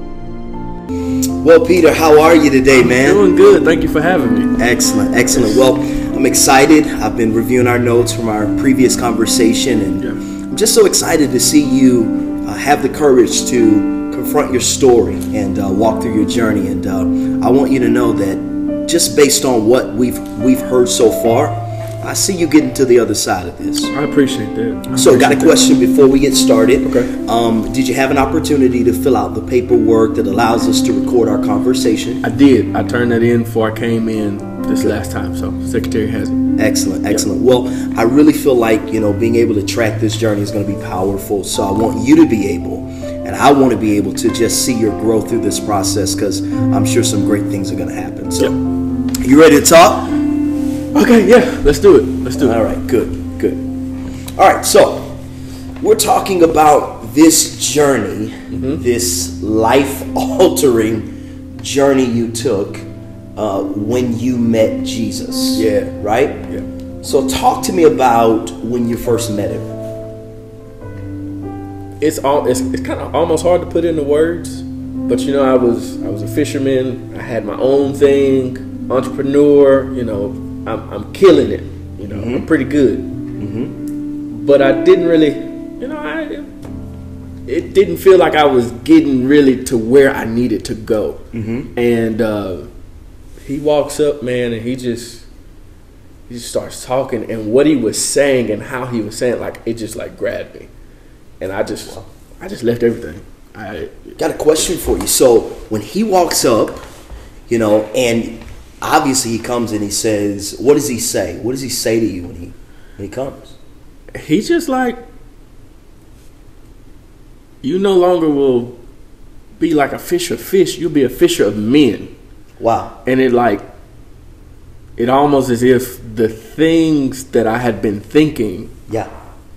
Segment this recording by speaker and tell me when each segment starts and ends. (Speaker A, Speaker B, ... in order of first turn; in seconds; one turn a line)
Speaker A: 1.4-3.4
Speaker B: 2.7-4.5
Speaker A: 4.6-23.9
Speaker B: 5.3-5.6
Speaker B: 23.9-25.7
Speaker A: 24.9-32.2
Speaker B: 26.8-27.1
Speaker B: 32.2-36.4
Speaker A: 36.6-48.6
Speaker A: 49.1-50.1
Speaker B: 50.9-52.6
Speaker A: 52.4-53.6
Speaker A: 54.4-55.1
Speaker A: 55.8-66.4
Speaker B: 58.5-58.8
Speaker B: 65.5-66.0
Speaker A: 67.0-69.7
Speaker B: 72.0-83.1
Speaker A: 82.1-82.5
Speaker A: 83.4-83.8
Speaker B: 84.3-86.5
Speaker B: 87.5-91.2
Speaker A: 91.3-91.7
Speaker B: 91.8-92.7
Speaker B: 93.4-95.2
Speaker B: 96.3-100.7
Speaker B: 101.4-104.7
Speaker A: 104.2-106.8
Speaker A: 107.5-113.5
Speaker B: 114.2-115.0
Speaker B: 117.6-118.8
Speaker B: 119.6-122.1
Speaker A: 122.6-122.9
Speaker B: 123.0-123.7
Speaker B: 125.0-128.7